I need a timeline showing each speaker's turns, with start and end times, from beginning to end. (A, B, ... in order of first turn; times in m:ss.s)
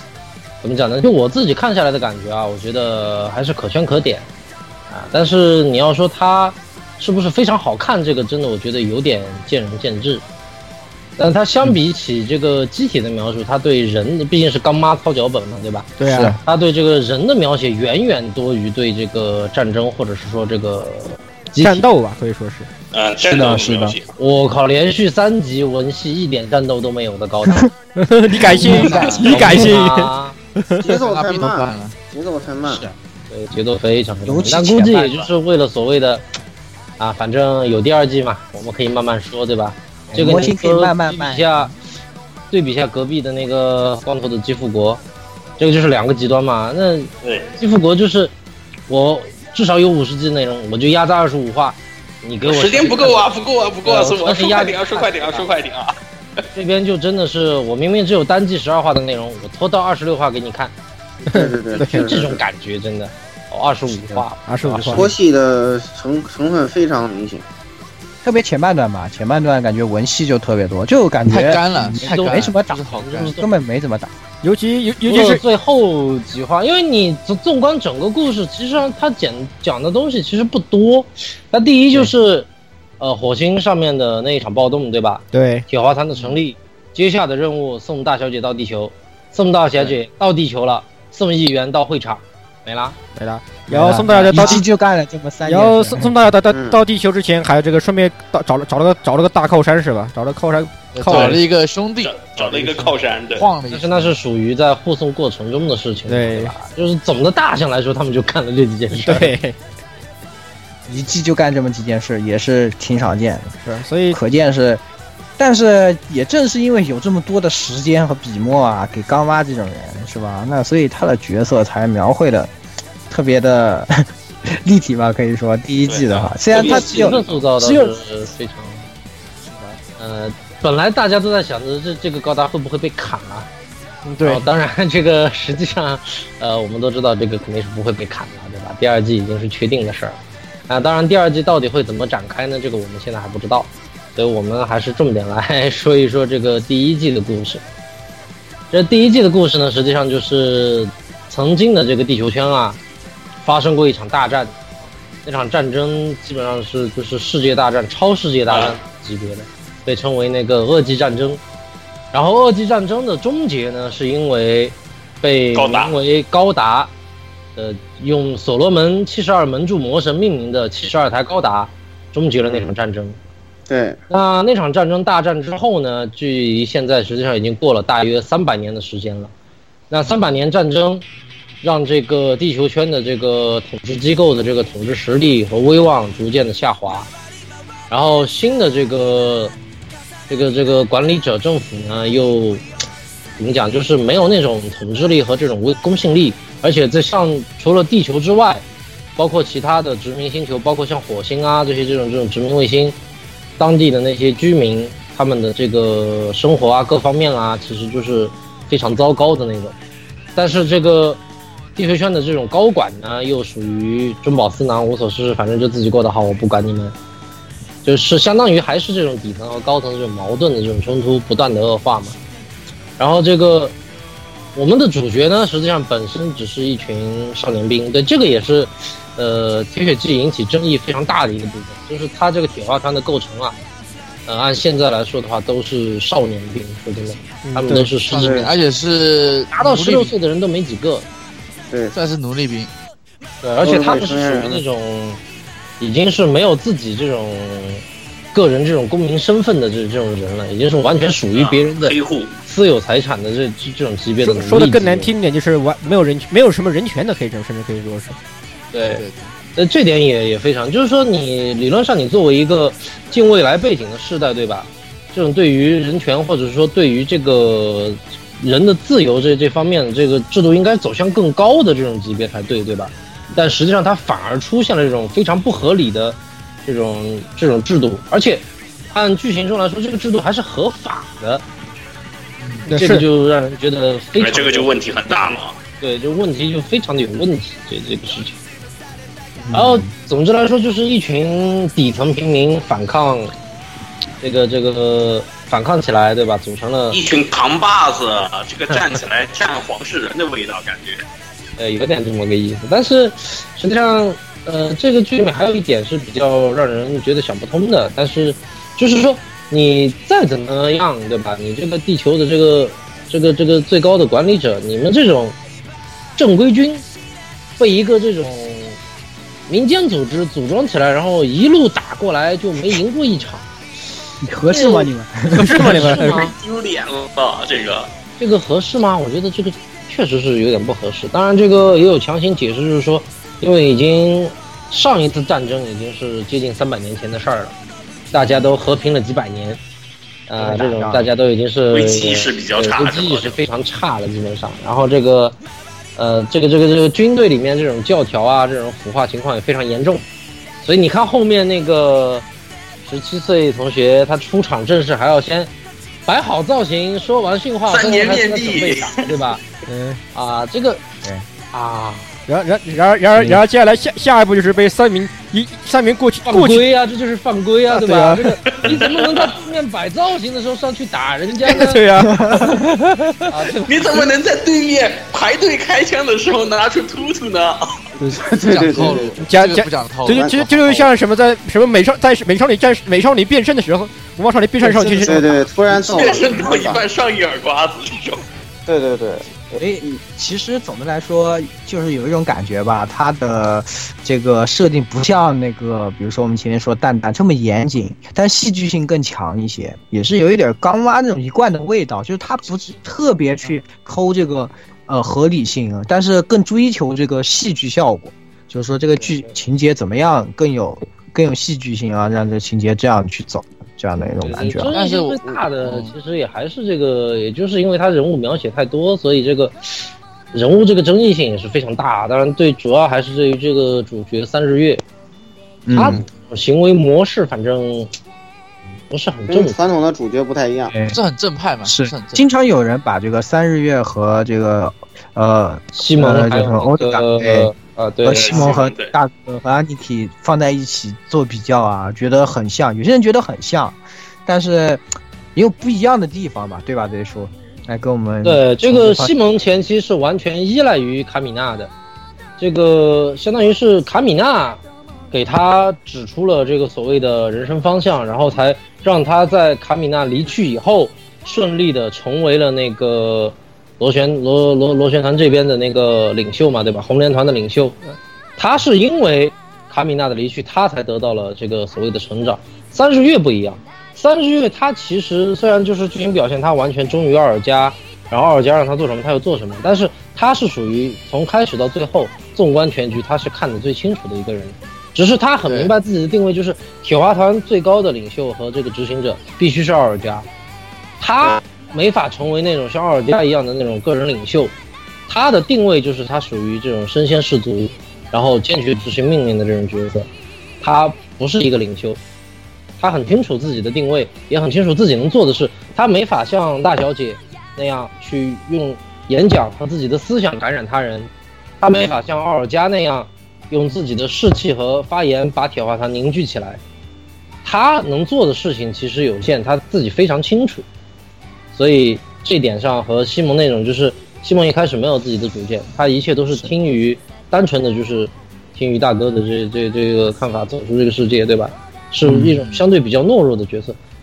0:00.6-0:04.3 A
0:04.9-0:10.2 A
0:11.2-0:21.9 A
0:16.0-0:16.4 B
0:16.1-0:16.4 C
0:21.6-0:22.7 B
0:22.9-0:24.1 D
0:23.2-0:23.9 C
0:24.2-0:27.7 A
0:28.0-0:30.8 B
0:28.5-0:29.4 C
0:28.5-0:29.6 E
0:28.6-0:30.4 A
0:30.8-0:32.8 F
0:30.8-0:31.9 E
0:32.6-0:32.9 C
0:33.3-0:36.2 A
0:34.2-0:35.2 C
0:37.0-0:41.7 A
0:40.1-0:41.7 C
0:42.5-0:45.0 A
0:45.6-0:48.3 A
0:47.2-0:47.5 D
0:48.9-0:53.3 A
0:52.4-0:56.0 D
0:53.8-0:55.5 A
0:56.6-1:00.7 A
1:01.2-1:02.4 F
1:01.3-1:02.2 B
1:01.7-1:05.1 A
1:04.4-1:05.1 B
1:04.9-1:07.4 F
1:08.2-1:14.1 C
1:11.3-1:13.4 E
1:12.0-1:13.5 A
1:14.4-1:15.4 B
1:15.1-1:22.5 A
1:23.0-1:33.0 A
1:25.3-1:25.6 B
1:33.2-1:34.6 B
1:33.7-1:36.3 C
1:34.1-1:34.6 A
1:35.4-1:41.4 B
1:36.5-1:36.8 F
1:40.9-1:44.2 E
1:42.0-1:43.5 D
1:43.7-1:49.3 A
1:46.1-1:46.5 B
1:48.9-1:49.6 B
1:50.9-1:53.5 C
1:53.6-1:54.2 B
1:54.1-1:54.8 C
1:55.4-2:02.5 C
2:03.1-2:08.0 C
2:05.9-2:07.4 D
2:06.5-2:08.9 A
2:10.0-2:13.5 A
2:14.2-2:14.4 E
2:14.2-2:20.2 A
2:20.7-2:27.6 A
2:28.7-2:32.8 A
2:33.4-2:34.5 A
2:35.2-2:41.4 A
2:38.5-2:38.8 D
2:42.1-2:46.9 A
2:45.5-2:46.0 D
2:47.6-2:53.2 A
2:53.7-2:54.0 F
2:54.1-2:59.3 A
2:59.9-3:01.0 A
3:01.6-3:07.1 A
3:07.9-3:09.5 A
3:10.3-3:12.6 A
3:13.4-3:18.6 A
3:19.2-3:23.0 A
3:23.6-3:29.7 A
3:30.4-3:31.2 A
3:31.8-3:36.9 A
3:37.8-3:42.2 A
3:43.0-3:43.7 A
3:44.6-3:53.6 A
3:54.3-3:58.4 A
3:57.4-3:58.0 B
3:58.1-4:00.1 E
3:58.1-3:58.5 F
3:59.5-4:01.1 A
4:01.9-4:02.7 E
4:03.4-4:05.2 A
4:03.6-4:04.6 F
4:05.8-4:11.9 A
4:11.3-4:12.3 D
4:12.4-4:15.1 A
4:14.2-4:18.2 B
4:18.7-4:19.0 A
4:18.8-4:19.3 E
4:19.6-4:41.4 A
4:42.4-4:42.7 E
4:42.7-4:43.1 B
4:42.7-4:44.8 A
4:44.2-4:45.6 D
4:45.8-4:48.4 A
4:49.4-4:49.9 C
4:49.5-4:53.3 A
4:54.2-4:57.0 A
4:56.9-5:01.0 D
5:01.6-5:15.4 A
5:16.2-5:16.8 A
5:17.6-5:18.8 A
5:19.5-5:23.5 A
5:24.2-5:25.9 C
5:24.5-5:24.9 A
5:25.3-5:26.3 B
5:25.5-5:26.3 A
5:26.0-5:27.9 D
5:28.2-5:37.6 A
5:38.1-5:39.6 A
5:40.3-5:45.4 A
5:40.4-5:41.1 C
5:41.7-5:43.4 D
5:46.0-5:50.0 A
5:50.6-5:52.3 A
5:52.8-5:55.5 A
5:56.1-5:59.4 A
5:57.7-5:59.2 D
5:59.6-6:00.0 B
6:00.1-6:00.8 A
6:01.5-6:02.1 A
6:02.3-6:06.6 B
6:06.3-6:11.8 A
6:07.7-6:08.4 B
6:08.5-6:09.4 D
6:11.4-6:13.3 B
6:12.0-6:12.7 C
6:13.3-6:14.1 A
6:13.6-6:17.8 D
6:18.0-6:25.4 B
6:18.2-6:19.2 F
6:18.4-6:20.4 E
6:20.1-6:20.9 F
6:24.6-6:26.9 F
6:25.7-6:28.2 D
6:28.7-6:29.6 F
6:29.6-6:54.7 C
6:54.2-7:04.8 A
6:54.7-6:55.9 E
7:05.6-7:06.0 C
7:05.7-7:07.9 A
7:08.9-7:09.6 A
7:09.3-7:10.7 F
7:10.7-7:11.0 C
7:10.9-7:12.2 E
7:11.6-7:17.5 C
7:15.7-7:18.6 A
7:18.0-7:24.8 C
7:18.1-7:18.9 D
7:25.4-7:29.1 C
7:28.2-7:31.7 A
7:32.4-7:34.6 A
7:35.1-7:47.8 A
7:48.4-8:10.3 A
8:05.4-8:05.7 E
8:11.0-8:14.5 A
8:15.1-8:20.1 A
8:20.6-8:22.0 A
8:22.8-8:31.1 A
8:31.6-8:36.6 A
8:37.4-8:40.6 A
8:41.5-8:53.8 A
8:52.0-8:52.4 C